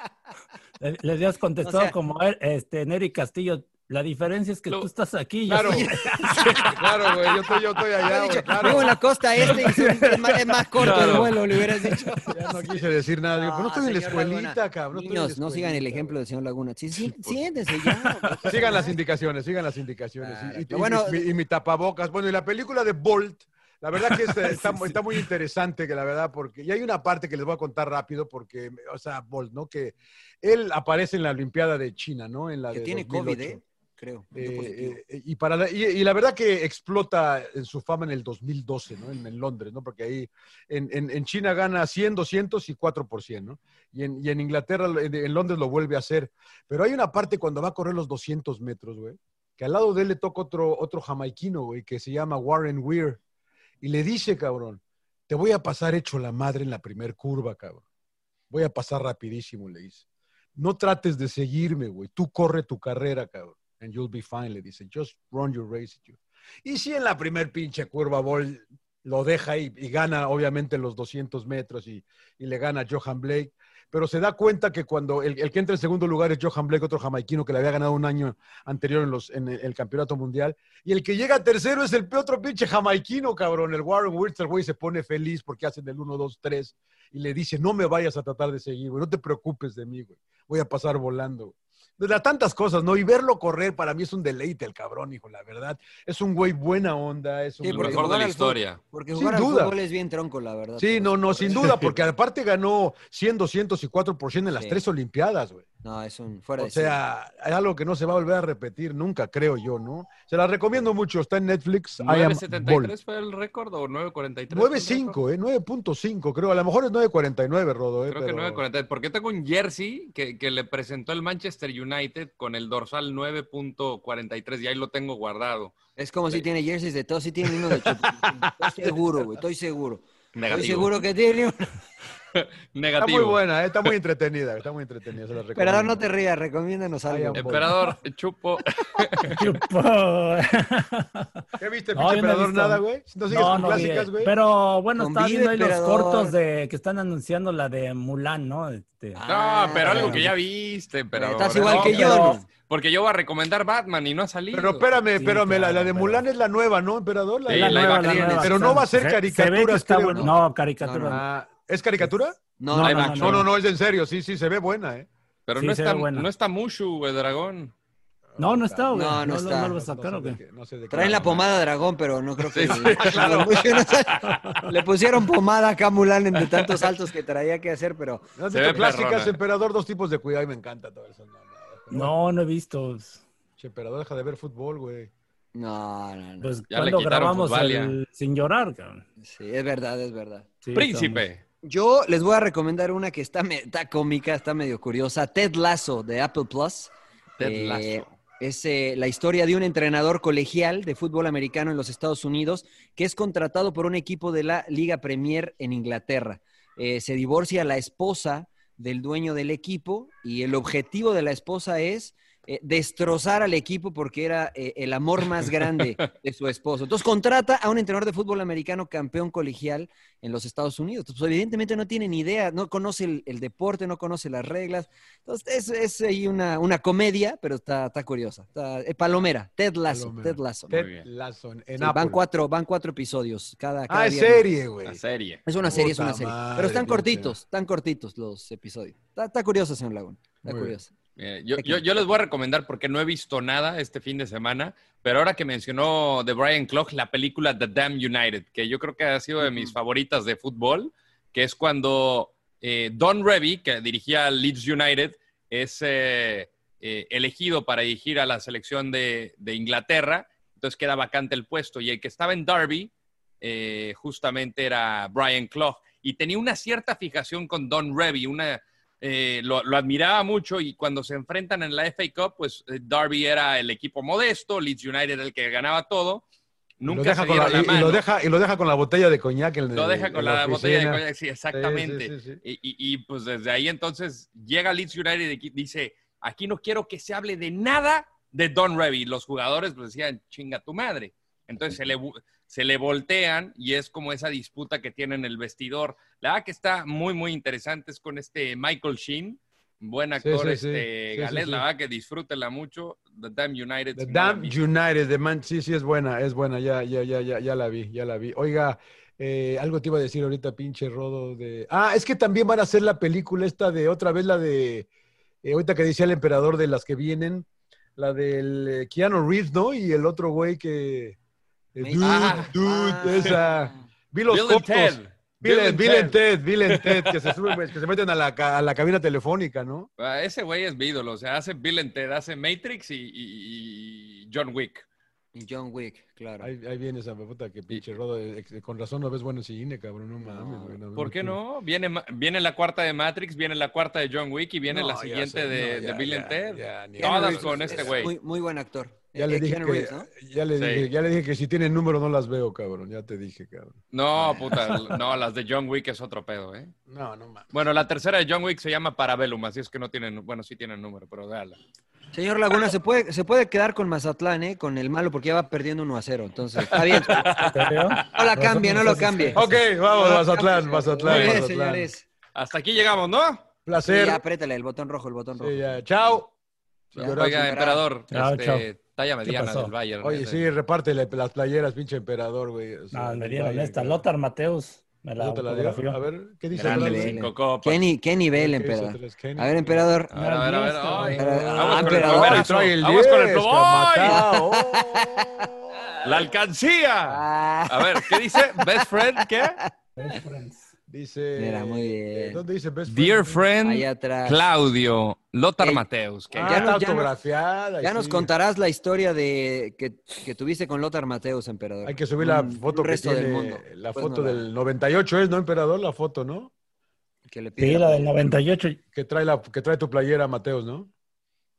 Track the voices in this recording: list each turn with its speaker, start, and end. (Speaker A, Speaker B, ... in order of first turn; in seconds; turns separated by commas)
Speaker A: 0.8-6.4, Speaker B: 1.6-1.9, Speaker C: 5.5-6.0, Speaker B: 5.6-6.7, Speaker C: 6.6-8.9, Speaker B: 8.0-12.3, Speaker D: 10.8-11.3, Speaker C: 12.3-16.2, Speaker B: 13.3-18.9, Speaker C: 16.9-17.4, Speaker A: 17.8-18.4, Speaker C: 18.4-33.6, Speaker B: 20.2-21.2, Speaker B: 32.7-35.0, Speaker C: 34.3-53.2, Speaker C: 53.8-57.8, Speaker C: 58.5-60.0, Speaker C: 60.5-98.2, Speaker B: 97.6-101.9, Speaker D: 97.6-98.8, Speaker C: 99.1-99.7, Speaker C: 100.8-105.6, Speaker B: 105.8-107.0, Speaker C: 106.6-112.9, Speaker D: 112.0-115.2, Speaker C: 114.5-118.6, Speaker D: 118.1-125.8, Speaker B: 126.0-131.7, Speaker D: 127.6-128.9, Speaker D: 130.3-131.0, Speaker D: 132.3-133.9, Speaker C: 133.0-136.1, Speaker B: 135.5-137.9, Speaker C: 137.1-137.8, Speaker D: 137.4-139.4, Speaker A: 139.3-141.3, Speaker C: 141.6-144.3, Speaker A: 141.9-149.2, Speaker B: 145.0-146.3, Speaker B: 149.1-150.3, Speaker D: 149.3-154.8, Speaker A: 149.8-150.3, Speaker B: 151.1-152.5, Speaker A: 151.7-152.4, Speaker C: 154.5-160.3, Speaker A: 155.1-156.2, Speaker D: 157.4-158.4, Speaker A: 157.5-161.2, Speaker B: 158.1-158.4, Speaker B: 160.1-161.2, Speaker C: 161.1-165.1, Speaker B: 162.6-163.4, Speaker D: 162.7-163.4, Speaker A: 162.7-163.4, Speaker D: 165.5-167.7, Speaker A: 165.6-166.3, Speaker C: 168.3-171.7, Speaker A: 168.4-170.4, Speaker B: 168.9-169.8, Speaker B: 170.9-178.3, Speaker D: 172.5-174.0, Speaker C: 173.0-173.6, Speaker A: 174.3-174.6, Speaker D: 176.5-176.9, Speaker C: 178.3-182.1, Speaker D: 178.5-179.4, Speaker A: 181.9-183.2, Speaker C: 183.6-185.1, Speaker B: 185.5-186.6, Speaker A: 186.4-189.0, Speaker D: 186.7-187.9, Speaker B: 189.2-190.5, Speaker A: 190.6-191.3, Speaker D: 190.7-191.4, Speaker B: 191.6-230.9, Speaker D: 197.4-198.1, Speaker C: 229.9-232.2, Speaker D: 230.7-231.1, Speaker B: 231.8-234.4, Speaker C: 233.9-235.0, Speaker D: 234.8-235.4, Speaker B: 235.4-240.9, Speaker C: 235.6-237.4, Speaker C: 240.4-240.7, Speaker D: 241.2-276.2, Speaker B: 241.6-242.0, Speaker B: 249.4-249.7, Speaker D: 276.8-278.0, Speaker C: 276.9-282.4, Speaker D: 279.7-304.6, Speaker C: 300.2-301.6, Speaker C: 303.9-314.9, Speaker C: 315.4-321.2, Speaker C: 321.7-329.9, Speaker B: 321.8-323.7, Speaker D: 322.0-322.5, Speaker D: 323.1-323.4, Speaker D: 324.3-327.6, Speaker D: 330.0-334.9, Speaker B: 335.3-336.5, Speaker C: 336.4-341.4, Speaker B: 340.2-340.8, Speaker D: 340.9-348.1, Speaker C: 344.7-348.1, Speaker B: 347.0-350.1, Speaker C: 349.1-355.1, Speaker D: 350.6-350.9, Speaker D: 353.9-356.7, Speaker C: 356.9-357.5, Speaker D: 357.5-361.6, Speaker B: 362.1-367.3, Speaker D: 366.6-368.2, Speaker C: 367.2-368.0, Speaker A: 367.5-369.6, Speaker B: 368.1-372.1, Speaker C: 368.8-371.9, Speaker D: 371.1-371.4, Speaker D: 372.3-373.4, Speaker C: 373.6-374.2, Speaker B: 373.8-376.2, Speaker C: 375.4-376.3, Speaker C: 376.9-377.6, Speaker B: 376.9-377.8, Speaker D: 377.0-380.5, Speaker A: 378.1-378.7, Speaker A: 379.2-379.7, Speaker C: 380.0-384.0, Speaker A: 382.9-386.0, Speaker C: 385.2-387.2, Speaker B: 386.5-390.1, Speaker D: 386.6-387.8, Speaker C: 388.3-389.9, Speaker D: 390.1-394.4, Speaker A: 390.1-391.4, Speaker C: 390.9-395.8, Speaker B: 391.1-392.5, Speaker B: 394.0-395.5, Speaker D: 396.0-399.6, Speaker B: 397.1-399.6, Speaker A: 400.0-400.7, Speaker C: 400.9-403.4, Speaker B: 401.4-402.4, Speaker D: 402.9-406.7, Speaker B: 403.6-404.5, Speaker C: 406.3-408.3, Speaker B: 406.4-407.1, Speaker B: 407.8-414.4, Speaker C: 411.8-416.5, Speaker B: 417.2-418.1, Speaker A: 417.6-418.8, Speaker C: 418.9-420.9